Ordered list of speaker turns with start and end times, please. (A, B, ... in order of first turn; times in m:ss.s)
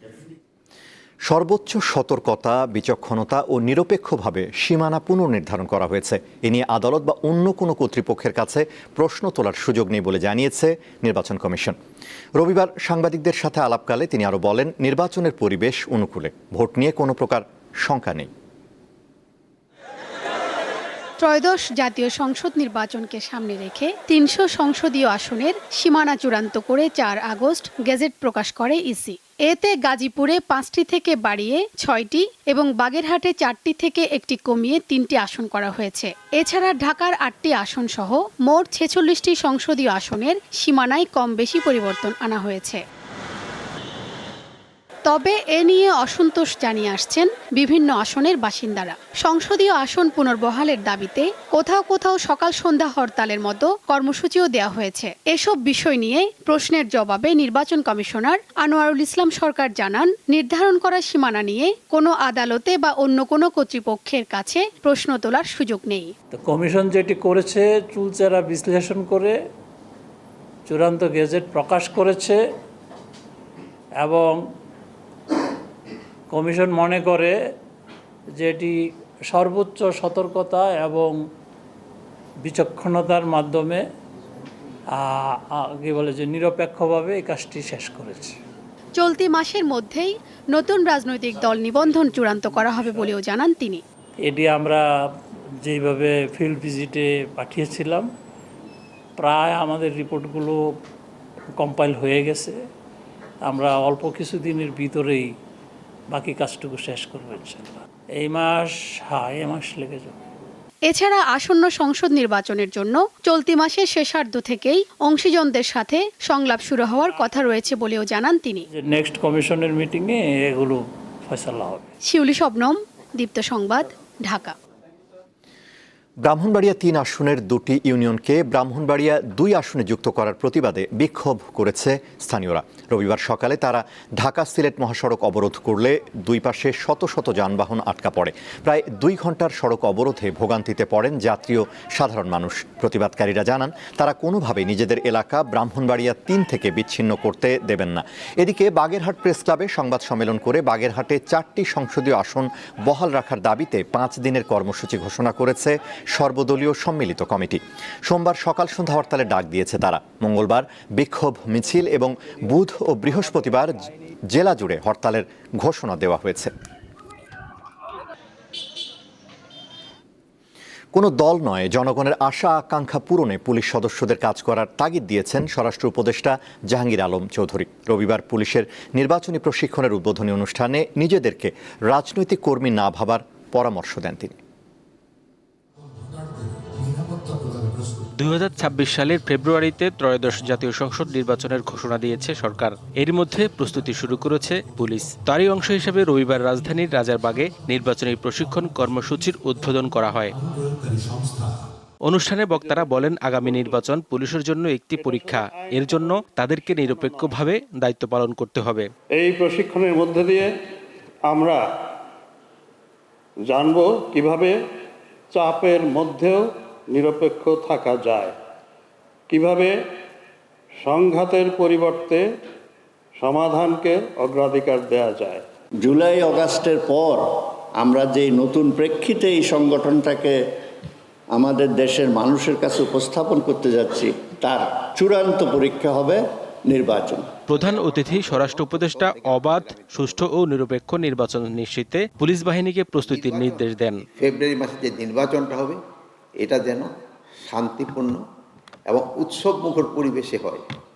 0:01.2-0:11.8 A
0:12.4-0:18.3 A
0:21.2-0:42.8 B
0:45.0-1:06.1 B
1:06.3-1:09.4 C
1:10.7-1:12.4 C
1:14.0-1:14.5 C
1:16.3-1:17.4 C
1:18.3-1:21.2 C
1:22.4-1:23.9 C
1:24.9-1:28.4 C
1:29.0-1:33.8 B
1:34.2-1:35.1 C
1:35.6-1:38.1 C
1:39.2-1:40.8 C
1:41.5-1:42.6 C
1:43.4-1:45.3 C
1:46.1-1:50.2 C
1:50.8-1:58.6 B
1:58.7-2:01.9 C
2:02.0-2:04.5 B
2:06.2-2:46.5 A
2:50.9-3:04.3 A
3:08.1-3:20.3 D
3:22.0-3:28.9 D
3:23.4-3:23.8 E
3:25.0-3:26.0 E
3:26.8-3:27.3 E
3:29.1-3:30.5 E
3:31.3-3:31.6 E
3:33.5-3:34.6 E
3:35.3-3:38.3 E
3:39.3-3:39.7 E
3:40.8-3:42.2 E
3:43.2-3:45.4 E
3:45.8-3:50.3 F
3:51.3-3:57.2 F
3:57.5-4:04.0 D
3:57.6-4:00.2 G
4:03.1-4:03.6 G
4:04.2-4:05.8 G
4:06.4-4:06.9 G
4:07.5-4:08.2 G
4:08.9-4:10.6 G